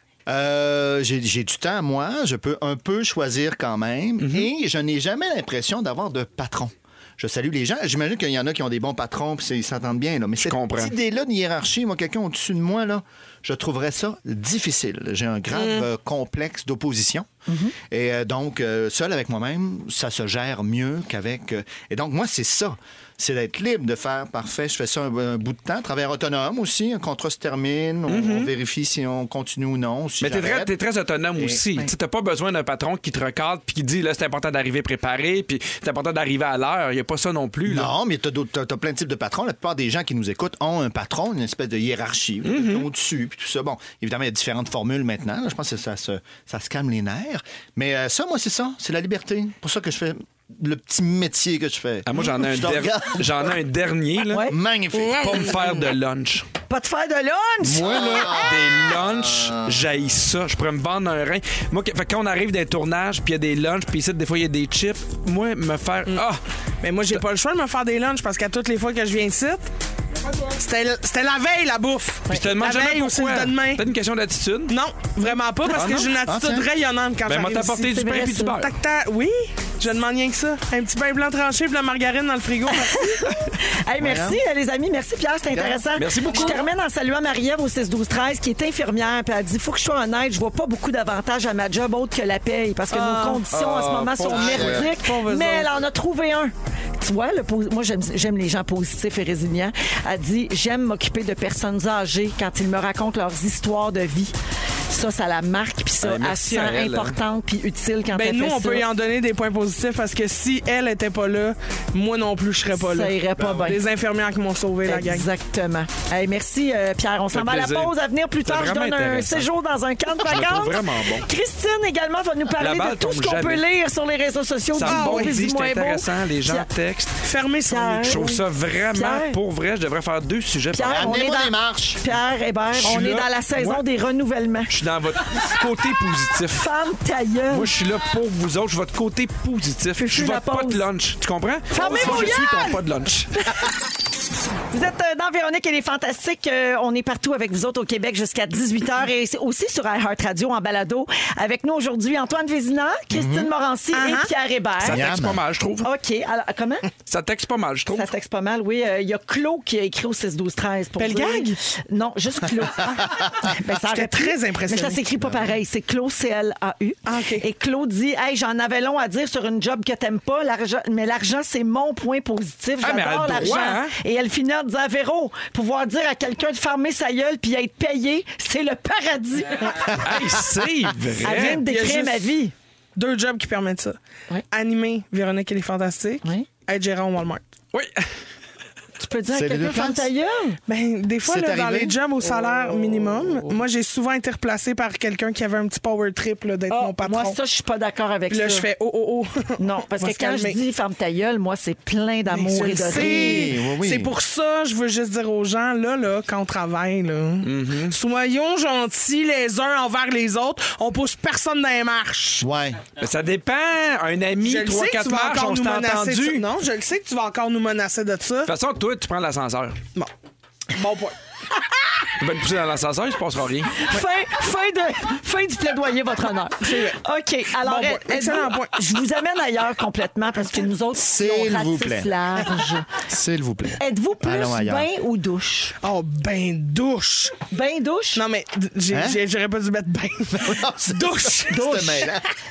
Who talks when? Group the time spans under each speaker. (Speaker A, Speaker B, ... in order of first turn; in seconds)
Speaker A: 0.3-17.3, 17.9-30.7, 37.7-53.5, 54.4-55.6, 57.8-59.8, 76.2-76.7, 84.0-84.4, 85.5-85.8, 94.3-94.9, 130.8-132.0, 153.1-153.5, 154.8-155.4, 165.2-165.5, 179.9-180.2, 189.3-190.1, 191.2-192.0, 202.9-204.2, 212.4-212.8, 231.0-232.1, 232.9-234.9, 238.9-239.2, 240.4-242.3
Speaker B: 4.2-4.5, 10.4-10.9, 28.1-28.5, 30.2-37.9, 42.5-42.9, 52.1-54.4, 55.1-56.5, 57.6-66.4, 72.3-74.8, 75.7-76.1, 77.2-78.7, 86.0-86.6, 93.5-94.8, 106.0-107.2, 117.3-117.9, 118.5-119.5, 120.2-121.3, 122.6-123.6, 124.8-127.2, 128.1-131.1, 132.7-133.8, 134.7-136.7, 137.5-143.3, 154.8-155.9, 157.1-158.1, 172.8-173.9, 180.0-181.6, 187.7-188.1, 207.4-208.0, 213.0-216.4, 218.5-219.8, 222.2-223.8
Speaker C: 15.6-15.9, 54.9-55.9, 66.8-69.7, 70.5-73.8, 74.7-78.1, 78.6-83.3, 92.9-93.5, 94.5-95.8, 108.1-115.3, 124.9-125.4, 127.2-128.3, 153.9-154.3, 161.0-161.6, 163.8-165.0, 167.1-167.4, 181.3-182.3, 183.0-184.0, 184.5-187.4, 190.7-197.4, 198.3-200.6, 202.3-212.5, 214.4-218.5, 220.7-221.2, 226.6-227.0, 227.6-228.8, 235.8-237.4, 238.2-241.9
Speaker D: 17.5-17.8, 54.3-54.6, 56.7-58.4, 77.9-78.6, 82.8-104.3, 104.9-108.9, 112.8-113.8, 114.8-126.7, 127.7-128.4, 128.9-129.4, 130.7-134.7, 136.5-137.7, 140.0-140.8, 141.7-142.8, 144.7-155.1, 155.8-156.9, 157.9-180.0, 181.2-182.5, 189.0-190.6, 196.7-198.7, 199.6-203.5, 223.8-232.9, 233.8-235.8, 237.5-238.2, 241.5-242.1